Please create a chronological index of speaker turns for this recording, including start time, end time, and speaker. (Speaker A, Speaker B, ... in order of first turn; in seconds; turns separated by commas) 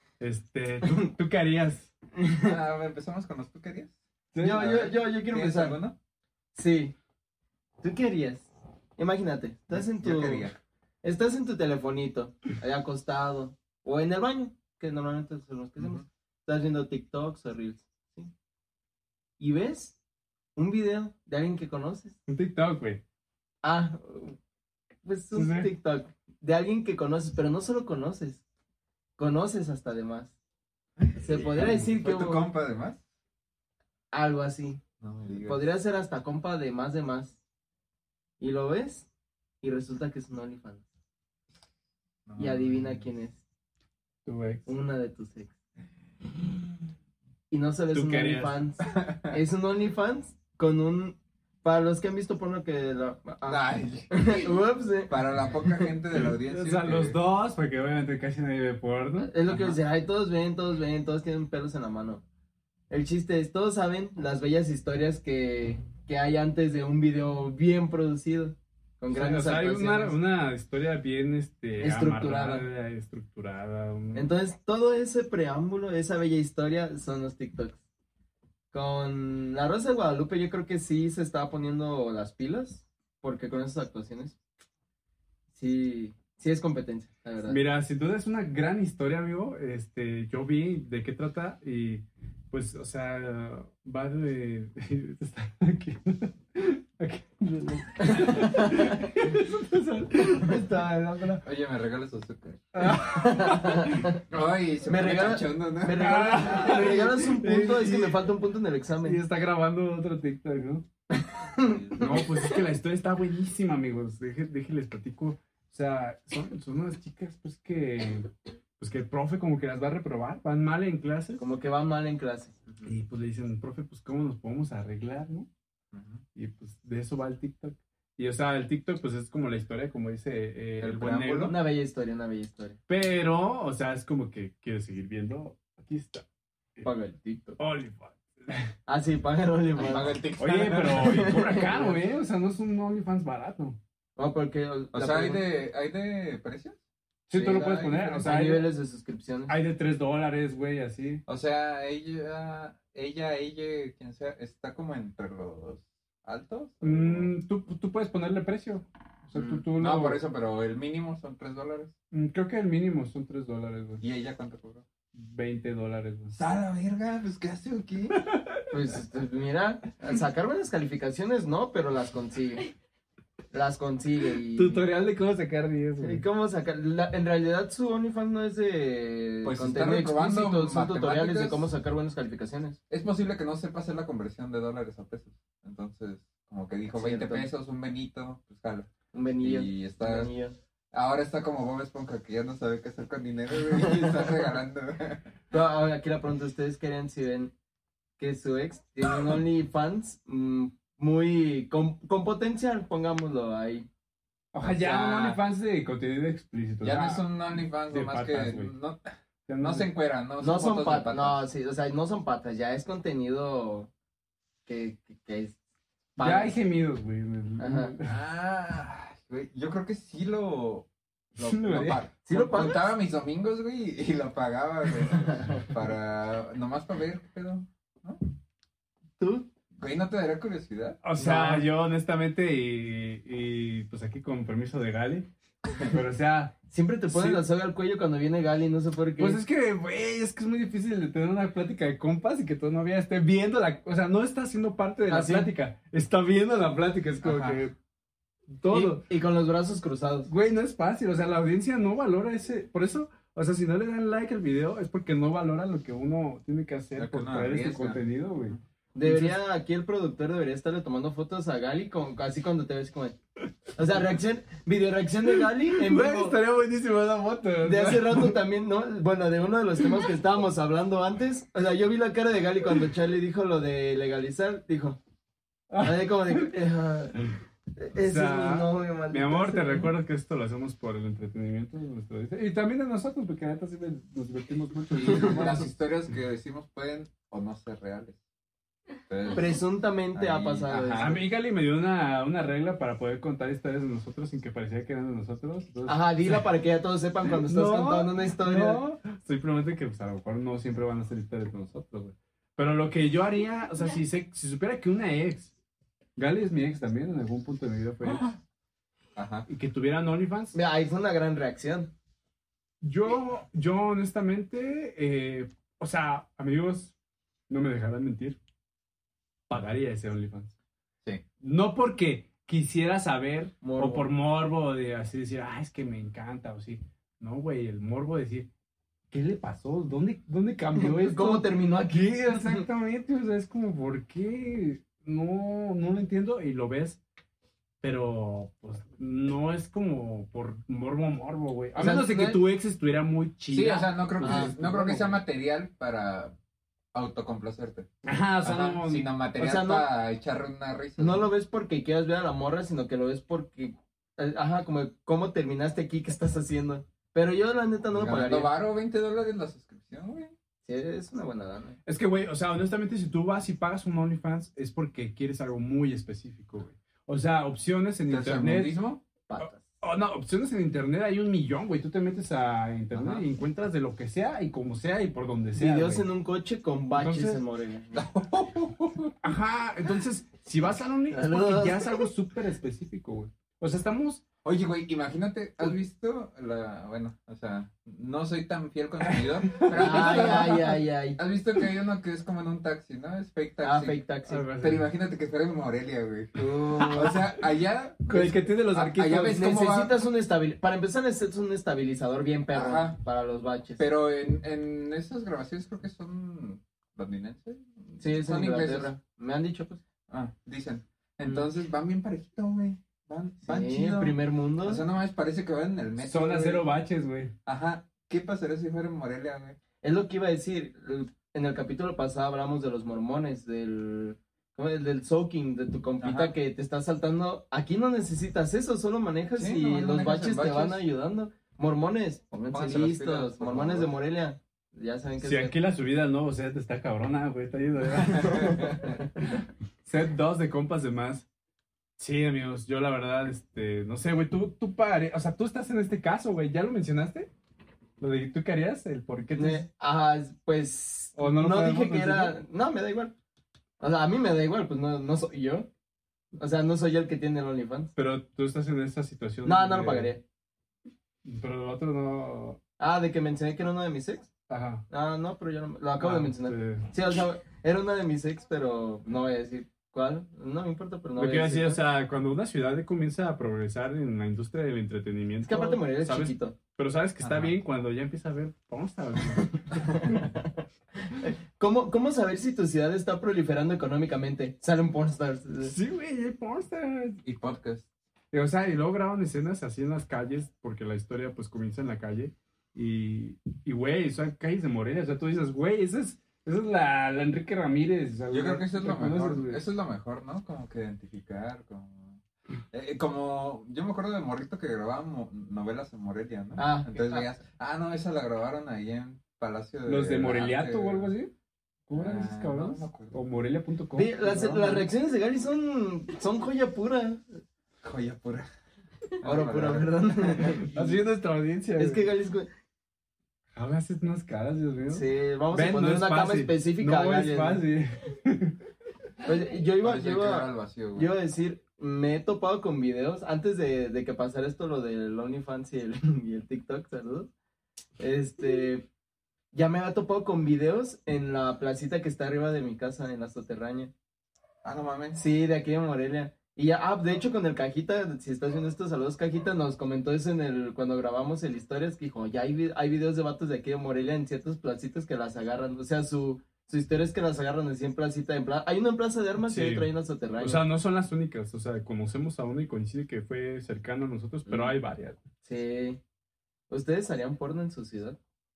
Speaker A: 0.2-1.9, Speaker B: 2.2-2.5, Speaker C: 2.4-4.0, Speaker A: 4.3-4.7, Speaker B: 4.4-5.8, Speaker C: 4.5-6.0, Speaker B: 6.5-6.9, Speaker B: 7.8-10.5, Speaker C: 9.7-10.5, Speaker B: 11.0-18.3, Speaker C: 15.8-16.0, Speaker B: 19.4-20.0, Speaker B: 20.6-22.2, Speaker A: 22.3-23.0, Speaker B: 23.6-24.4, Speaker B: 25.0-28.4, Speaker A: 25.3-25.7, Speaker B: 29.2-30.3, Speaker C: 31.0-33.0, Speaker B: 31.2-32.5, Speaker B: 34.1-34.8, Speaker C: 35.0-35.6, Speaker B: 35.4-37.4, Speaker B: 38.4-39.1, Speaker B: 39.6-40.8, Speaker C: 42.2-43.1, Speaker B: 42.4-43.4, Speaker A: 44.2-44.7, Speaker B: 44.6-45.5, Speaker B: 47.5-55.1, Speaker A: 47.9-48.6, Speaker C: 49.0-49.4, Speaker C: 53.4-54.4, Speaker C: 55.1-57.2, Speaker A: 56.5-59.3, Speaker B: 59.2-62.2, Speaker C: 59.5-59.8, Speaker B: 62.9-70.2, Speaker A: 69.1-74.3, Speaker B: 71.8-72.7, Speaker B: 74.1-77.8, Speaker B: 78.7-84.4, Speaker B: 85.5-87.6, Speaker A: 87.4-101.4, Speaker B: 98.0-99.0, Speaker C: 101.4-102.9, Speaker A: 102.7-103.9, Speaker B: 102.8-104.2, Speaker C: 104.3-106.8, Speaker B: 104.8-109.2, Speaker A: 106.0-108.3, Speaker A: 109.0-110.8, Speaker B: 111.1-112.6, Speaker C: 111.6-112.1, Speaker A: 112.0-121.4, Speaker B: 121.4-122.8, Speaker A: 122.8-125.5, Speaker C: 125.9-126.2, Speaker A: 126.3-131.6, Speaker C: 130.8-131.6, Speaker B: 131.4-132.8, Speaker A: 132.9-136.2, Speaker B: 136.8-137.6, Speaker A: 137.6-138.7, Speaker B: 138.8-140.2, Speaker C: 139.8-141.2, Speaker A: 140.4-143.8, Speaker B: 140.8-142.0, Speaker B: 144.2-145.4, Speaker C: 144.9-146.8, Speaker A: 147.3-148.7, Speaker C: 147.3-148.4, Speaker B: 148.2-149.5, Speaker A: 149.5-151.2, Speaker C: 151.2-157.3, Speaker A: 156.8-160.2, Speaker B: 159.3-159.6, Speaker C: 159.8-161.9, Speaker A: 162.1-164.0, Speaker C: 164.0-164.8, Speaker A: 165.1-166.3, Speaker C: 166.3-168.2, Speaker A: 168.2-168.6, Speaker B: 168.7-172.7, Speaker B: 173.5-174.8, Speaker A: 174.5-176.2, Speaker B: 176.0-182.8, Speaker C: 179.4-181.7, Speaker C: 182.9-190.3, Speaker B: 186.9-187.5, Speaker B: 189.1-190.6, Speaker C: 190.9-195.3, Speaker B: 193.7-194.3, Speaker B: 195.5-197.5, Speaker B: 198.2-203.9, Speaker A: 204.5-207.3, Speaker C: 204.6-205.4, Speaker C: 206.8-209.1, Speaker A: 207.9-208.7, Speaker A: 209.5-209.9, Speaker C: 209.6-211.4, Speaker B: 210.4-213.9, Speaker B: 214.7-215.6, Speaker B: 216.2-216.5, Speaker A: 216.2-218.2, Speaker B: 217.6-217.9, Speaker C: 218.0-228.2, Speaker A: 221.4-222.0, Speaker B: 222.2-222.9, Speaker B: 225.3-225.6, Speaker B: 229.2-229.5, Speaker C: 229.8-231.7, Speaker A: 231.0-235.3, Speaker A: 235.8-237.4, Speaker B: 236.7-239.4, Speaker A: 239.2-247.7, Speaker B: 245.1-245.5, Speaker C: 247.2-247.6, Speaker A: 248.5-249.0, Speaker B: 248.7-250.3, Speaker A: 250.3-259.4, Speaker C: 256.9-258.6, Speaker B: 258.9-263.2, Speaker B: 263.8-266.4, Speaker A: 265.8-268.3, Speaker B: 267.6-275.0, Speaker A: 275.7-276.5, Speaker B: 275.8-277.2, Speaker B: 277.8-279.9, Speaker A: 277.9-285.6, Speaker B: 285.0-285.4, Speaker C: 285.0-288.2, Speaker C: 289.1-289.6, Speaker B: 289.3-291.1, Speaker C: 290.1-291.2, Speaker A: 290.9-296.4, Speaker B: 295.9-298.8, Speaker A: 297.3-305.5, Speaker A: 306.2-308.3, Speaker C: 308.1-308.3, Speaker C: 309.1-309.5, Speaker A: 309.5-310.5, Speaker B: 310.5-311.9, Speaker A: 312.8-316.9, Speaker A: 317.5-318.4, Speaker A: 319.5-320.5, Speaker A: 321.4-328.5, Speaker B: 323.6-324.1, Speaker A: 329.1-337.0, Speaker B: 330.8-332.6, Speaker A: 337.8-345.2, Speaker B: 341.8-342.4, Speaker C: 343.5-346.3, Speaker B: 344.2-344.5, Speaker C: 346.9-347.9, Speaker A: 348.0-349.1, Speaker C: 348.4-351.3, Speaker B: 349.4-349.9, Speaker B: 351.0-358.5, Speaker C: 357.9-360.3, Speaker B: 360.6-361.8, Speaker A: 361.9-368.8, Speaker C: 368.1-369.0, Speaker B: 369.3-369.6, Speaker A: 369.8-376.1, Speaker C: 372.9-373.2, Speaker B: 375.6-377.9, Speaker A: 377.0-377.4, Speaker C: 377.9-379.1, Speaker A: 379.2-384.2, Speaker B: 381.1-382.0, Speaker C: 384.4-394.0, Speaker A: 389.1-390.6, Speaker B: 389.7-391.2, Speaker B: 393.6-394.4, Speaker A: 394.3-394.9, Speaker C: 394.6-399.9, Speaker A: 396.4-397.4, Speaker A: 398.1-399.3, Speaker B: 399.2-403.8, Speaker C: 402.5-403.0, Speaker C: 403.8-408.9, Speaker B: 408.0-409.8, Speaker C: 410.1-416.7, Speaker B: 413.4-414.8, Speaker A: 416.0-417.3, Speaker C: 417.4-419.6, Speaker B: 419.8-435.5, Speaker C: 426.0-426.3, Speaker C: 429.4-430.8, Speaker C: 432.4-433.9, Speaker A: 435.2-439.0, Speaker C: 438.4-438.9, Speaker A: 439.8-441.2, Speaker A: 442.0-447.3, Speaker A: 448.0-449.7, Speaker B: 449.3-453.1, Speaker A: 451.1-452.4, Speaker B: 453.8-455.7, Speaker B: 456.4-457.9, Speaker A: 457.9-460.1, Speaker B: 459.4-460.2, Speaker A: 461.2-462.6, Speaker B: 462.8-464.3, Speaker A: 464.5-464.8, Speaker B: 464.9-471.8, Speaker A: 466.0-466.9, Speaker A: 471.1-479.8, Speaker B: 475.4-476.6, Speaker C: 477.2-477.6, Speaker B: 479.7-485.7, Speaker A: 485.6-487.2, Speaker C: 487.2-487.9, Speaker A: 488.3-499.6, Speaker C: 498.3-502.2, Speaker C: 502.7-511.1, Speaker B: 506.6-507.3, Speaker A: 509.9-511.3, Speaker A: 511.9-514.9, Speaker C: 511.9-513.1, Speaker B: 514.0-517.3, Speaker C: 517.8-518.5, Speaker C: 519.2-520.7, Speaker B: 519.2-520.9, Speaker A: 520.7-522.1, Speaker B: 521.8-522.5, Speaker A: 523.5-528.5, Speaker B: 524.9-527.6, Speaker B: 529.2-537.3, Speaker C: 529.8-531.1, Speaker B: 538.0-538.9, Speaker B: 539.5-543.9, Speaker C: 544.6-545.2, Speaker B: 545.1-560.6, Speaker A: 559.4-565.2, Speaker B: 564.5-564.7, Speaker B: 565.4-566.0, Speaker B: 566.7-568.2